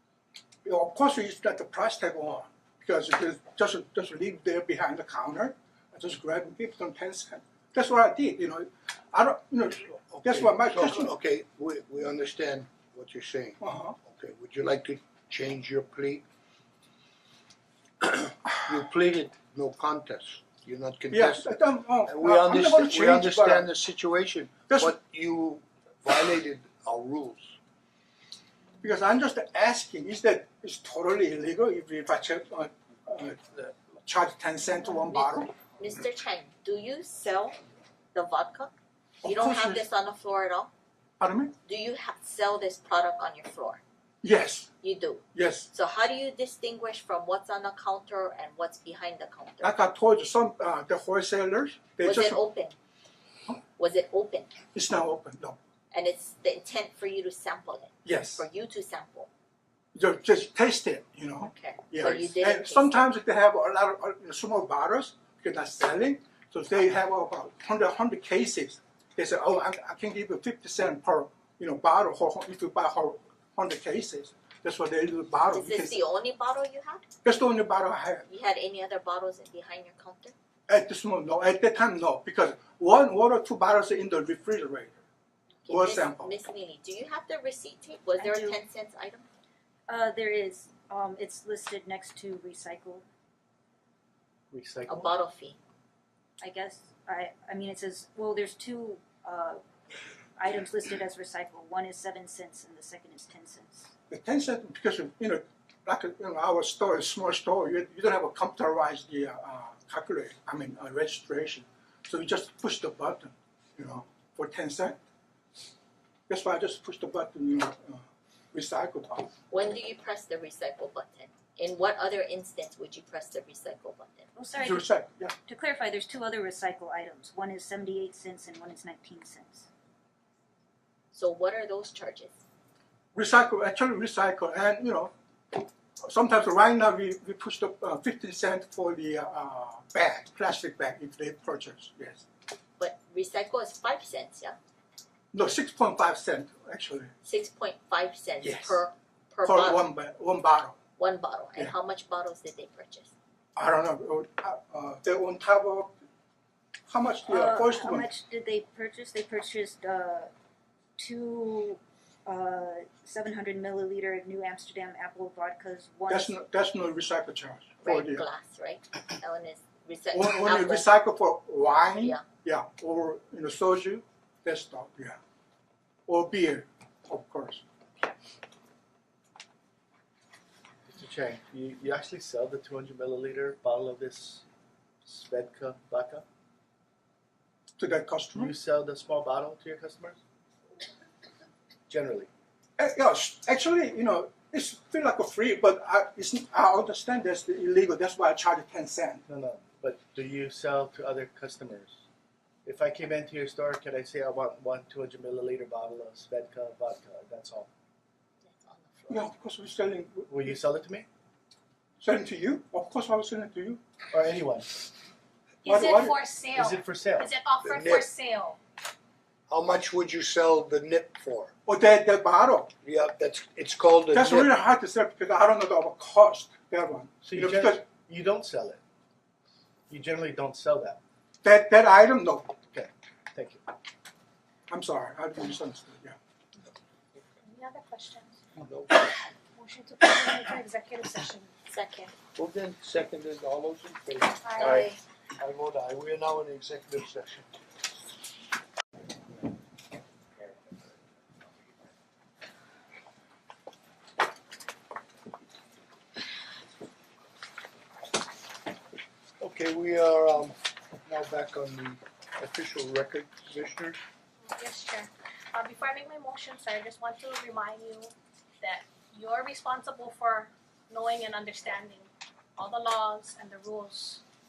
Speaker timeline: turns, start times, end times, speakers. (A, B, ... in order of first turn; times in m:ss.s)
0:00.6-0:11.1 A
0:10.2-0:16.2 B
0:13.6-0:14.0 A
0:18.0-0:21.5 B
0:21.1-0:23.7 A
0:22.0-0:27.5 B
0:24.7-0:24.9 A
0:28.8-0:35.5 A
0:35.1-0:37.6 C
0:38.1-0:38.7 C
0:39.2-0:39.8 A
0:39.2-0:40.7 C
0:41.2-0:41.5 A
0:41.6-0:43.8 C
0:44.2-0:44.7 A
0:44.8-0:49.8 C
0:45.3-0:45.7 A
0:49.6-0:52.4 A
0:52.0-0:52.8 C
0:53.8-0:54.5 C
0:54.7-0:55.6 A
0:55.9-0:59.3 C
0:58.0-0:58.5 A
1:00.0-1:16.0 A
1:01.4-1:03.1 C
1:15.5-1:17.1 C
1:17.2-1:18.3 A
1:18.3-1:20.3 C
1:20.7-1:25.0 A
1:25.7-1:29.3 C
1:25.7-1:26.3 A
1:28.2-1:28.6 D
1:29.9-1:33.1 D
1:34.5-1:35.1 E
1:34.9-1:35.6 C
1:36.4-1:39.6 D
1:40.4-1:43.9 D
1:44.1-1:55.0 A
1:56.3-1:59.3 A
1:59.5-2:04.3 C
2:04.4-2:09.7 D
2:04.6-2:05.4 A
2:11.1-2:12.4 C
2:13.1-2:15.1 A
2:16.0-2:22.2 A
2:22.8-2:24.6 C
2:25.3-2:27.1 A
2:27.2-2:29.8 C
2:28.4-2:28.8 A
2:29.4-2:30.8 A
2:31.0-2:33.1 C
2:33.6-2:35.9 A
2:36.9-2:38.1 A
2:37.3-2:40.3 D
2:41.0-2:46.3 D
2:46.1-2:48.3 A
2:47.8-2:50.9 C
2:50.1-2:55.2 A
2:56.1-2:57.6 A
3:00.9-3:04.4 E
3:05.0-3:06.2 E
3:07.8-3:08.5 A
3:08.4-3:10.2 E
3:11.9-3:12.3 E
3:12.8-3:19.2 A
3:19.3-3:22.0 E
3:22.6-3:27.7 E
3:28.4-3:29.3 C
3:29.1-3:30.5 A
3:30.3-3:31.1 E
3:32.0-3:33.8 A
3:34.1-3:34.8 E
3:35.6-3:38.6 F
3:35.6-3:36.2 A
3:36.5-3:37.3 E
3:37.6-3:38.1 B
3:39.5-3:41.5 B
3:41.7-3:42.7 A
3:42.8-3:44.5 B
3:44.1-3:47.8 A
3:47.2-3:48.8 E
3:49.9-3:51.0 E
3:51.4-3:52.5 A
3:52.7-3:53.6 E
3:54.7-3:56.2 A
3:57.4-3:58.4 F
3:58.6-3:59.3 B
3:59.6-4:01.5 F
4:01.7-4:02.1 C
4:02.4-4:07.5 B
4:04.4-4:05.0 F
4:19.4-4:24.0 B
4:24.5-4:34.2 F